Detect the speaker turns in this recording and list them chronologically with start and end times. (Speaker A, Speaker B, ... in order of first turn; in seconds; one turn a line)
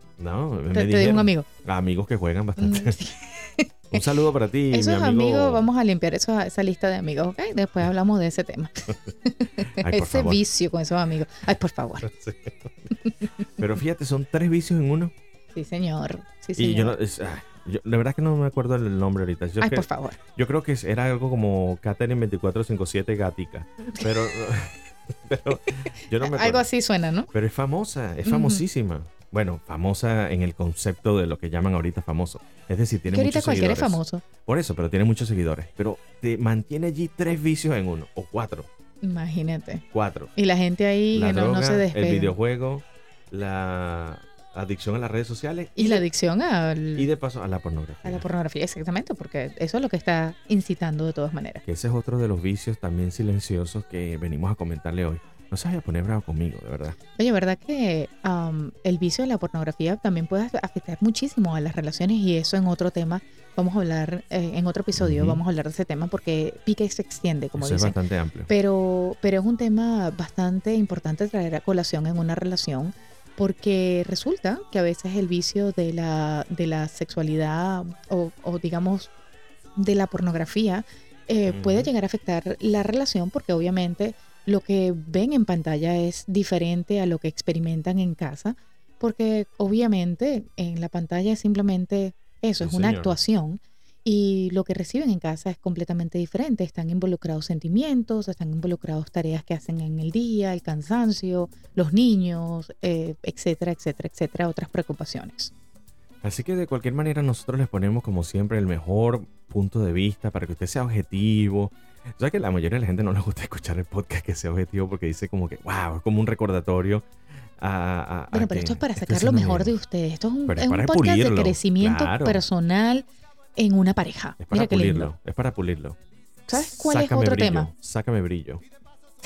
Speaker A: 0.2-3.0
Speaker B: 0.7-1.5
Speaker B: 2.6-4.0
Speaker A: 3.9-5.7
Speaker B: 4.7-12.1
Speaker A: 9.8-10.4
Speaker A: 12.0-12.7
Speaker A: 13.6-15.1
Speaker B: 15.5-17.0
Speaker A: 16.6-26.7
Speaker B: 19.6-20.2
Speaker B: 26.2-27.3
Speaker A: 27.3-38.7
Speaker B: 28.2-28.6
Speaker B: 33.1-34.2
Speaker B: 39.0-39.8
Speaker A: 39.9-40.3
Speaker B: 40.4-42.4
Speaker A: 41.1-46.0
Speaker B: 45.8-47.1
Speaker A: 47.0-48.2
Speaker B: 48.0-51.6
Speaker A: 51.6-57.0
Speaker B: 57.2-79.1
Speaker A: 65.0-65.4
Speaker A: 67.5-68.5
Speaker B: 79.8-105.5
Speaker A: 81.5-81.9
Speaker A: 92.6-93.2
Speaker A: 106.2-117.0
Speaker A: 117.6-119.7
Speaker B: 118.3-123.0
Speaker A: 120.5-122.4
Speaker B: 123.5-125.1
Speaker A: 124.4-126.0
Speaker B: 126.5-127.7
Speaker A: 126.5-128.6